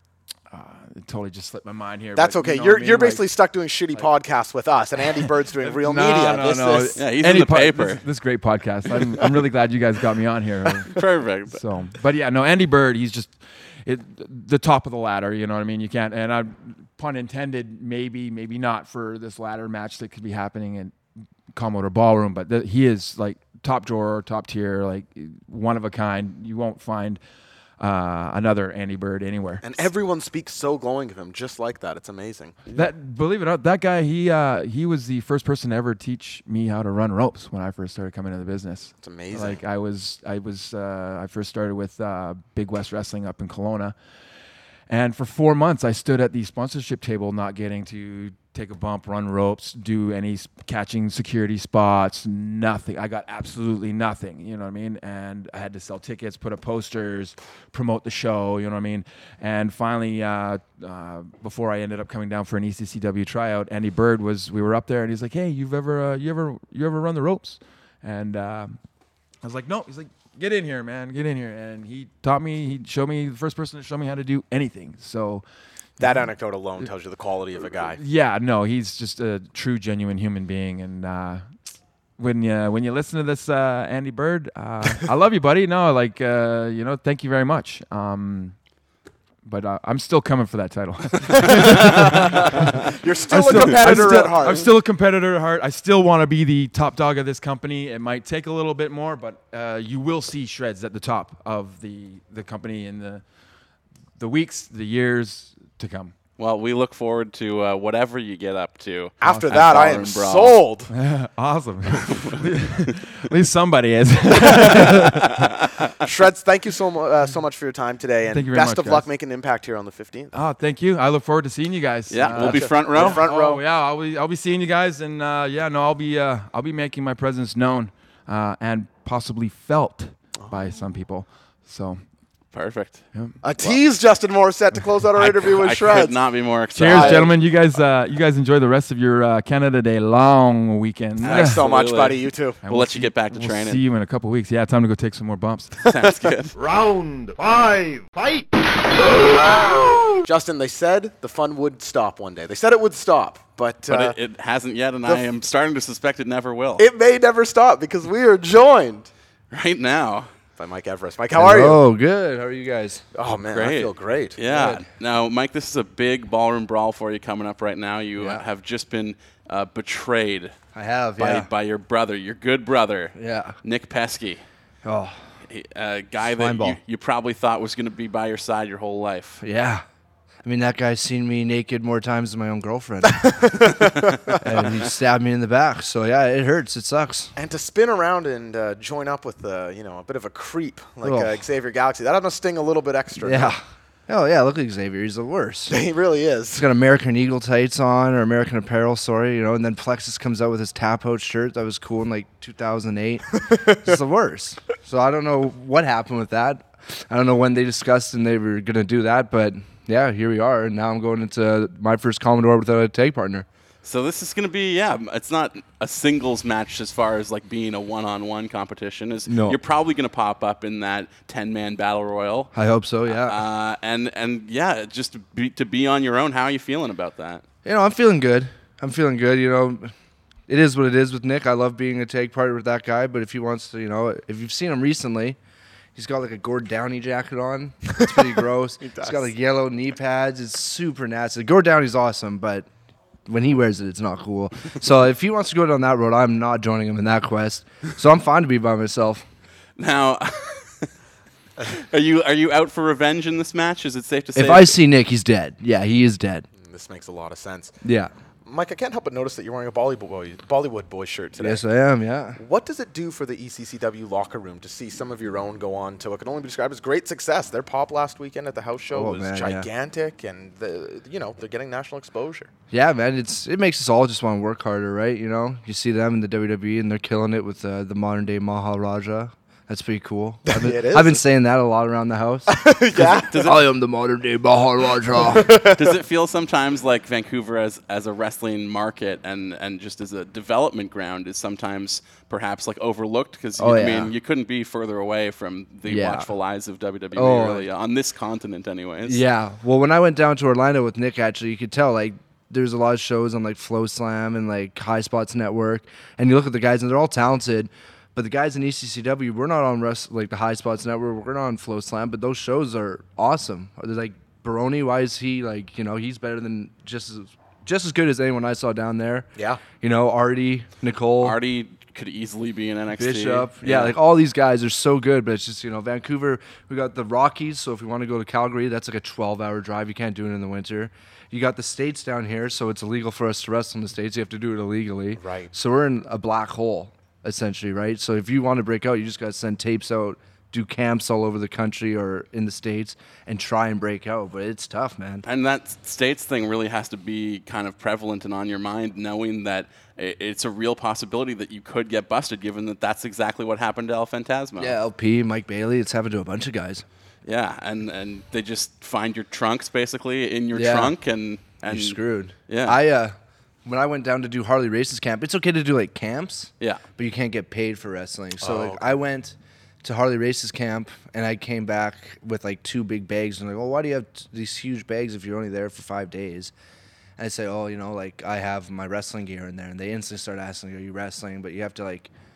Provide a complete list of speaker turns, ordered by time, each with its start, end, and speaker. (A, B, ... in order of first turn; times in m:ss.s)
0:00.5-0:03.3 A
0:02.2-0:07.0 B
0:05.6-0:10.9 A
0:07.0-0:08.0 C
0:10.9-0:11.6 C
0:11.5-0:20.9 A
0:21.5-0:27.2 A
0:27.8-0:29.7 A
0:29.6-0:32.6 B
0:32.7-0:44.0 A
0:39.0-0:39.6 B
0:44.9-1:08.8 A
1:09.4-1:15.4 A
1:16.0-1:16.3 A
1:16.0-1:18.0 B
1:17.8-1:21.4 A
1:22.2-1:28.6 A
1:29.4-1:43.2 A
1:31.3-1:34.7 B
1:44.2-1:46.1 A
1:46.4-1:50.6 C
1:49.2-1:50.9 B
1:49.2-1:49.5 A
1:50.9-1:55.3 A
1:52.1-1:52.4 C
1:54.5-1:55.0 B
1:55.3-1:55.9 C
1:56.0-2:00.3 B
1:58.3-1:59.0 A
2:00.3-2:12.0 A
2:02.1-2:03.3 C
2:02.3-2:03.6 B
2:12.5-2:13.0 C
2:13.4-2:16.1 B
2:15.2-2:17.4 C
2:16.7-2:21.6 A
2:16.8-2:17.3 B
2:21.2-2:23.8 C
2:21.2-2:22.6 B
2:22.6-2:25.7 A
2:25.9-2:26.6 C
2:26.6-2:30.2 D
2:30.3-2:34.2 B
2:33.9-2:36.8 C
2:36.8-2:39.1 B
2:39.5-2:40.3 C
2:40.6-2:41.8 B
2:41.3-2:43.0 E
2:43.1-2:44.4 B
2:43.5-2:50.5 C
2:44.4-2:44.8 E
2:48.2-2:48.4 E
2:50.7-2:51.5 E
2:51.2-2:54.4 C
2:53.1-2:53.6 E
2:54.8-2:55.2 E
2:55.5-2:59.4 C
2:56.2-2:56.8 E
2:59.4-2:59.8 E
3:00.4-3:03.4 E
3:03.0-3:04.3 B
3:04.4-3:07.3 E
3:07.4-3:13.6 B
3:11.0-3:11.4 E
3:13.2-3:15.7 E
3:15.7-3:16.6 B
3:16.5-3:33.4 E
3:23.5-3:23.9 B
3:33.8-3:42.5 C
3:39.3-3:39.6 E
3:42.5-3:43.4 E
3:43.2-3:47.4 C
3:47.6-3:49.9 E
3:50.5-3:55.4 E
3:56.0-4:02.7 E
3:58.8-3:59.3 B
4:03.3-4:09.2 E
4:09.8-4:10.9 C
4:11.7-4:14.8 C
4:14.3-4:16.4 E
4:16.6-4:17.8 B
4:17.8-4:18.1 E
4:18.4-4:21.6 B
4:21.4-4:22.4 E
4:22.4-4:32.5 B
4:28.9-4:29.7 E
4:32.7-4:45.6 E
4:40.4-4:41.2 B
4:42.5-4:43.4 B
4:43.3-4:43.7 C
4:45.1-4:46.0 B
4:45.4-4:59.2 C
4:53.6-4:54.1 E
4:55.9-4:56.3 E
4:57.1-4:57.7 E
4:59.0-5:21.4 E
5:19.3-5:19.6 B
5:21.2-5:24.0 C
5:23.0-5:45.2 E
5:35.2-5:35.5 B
5:45.2-5:54.8 C
5:54.6-5:56.8 E
5:57.3-6:02.8 C
6:00.5-6:01.0 E
6:01.7-6:16.5 E
6:08.4-6:08.9 B
6:17.2-6:22.1 E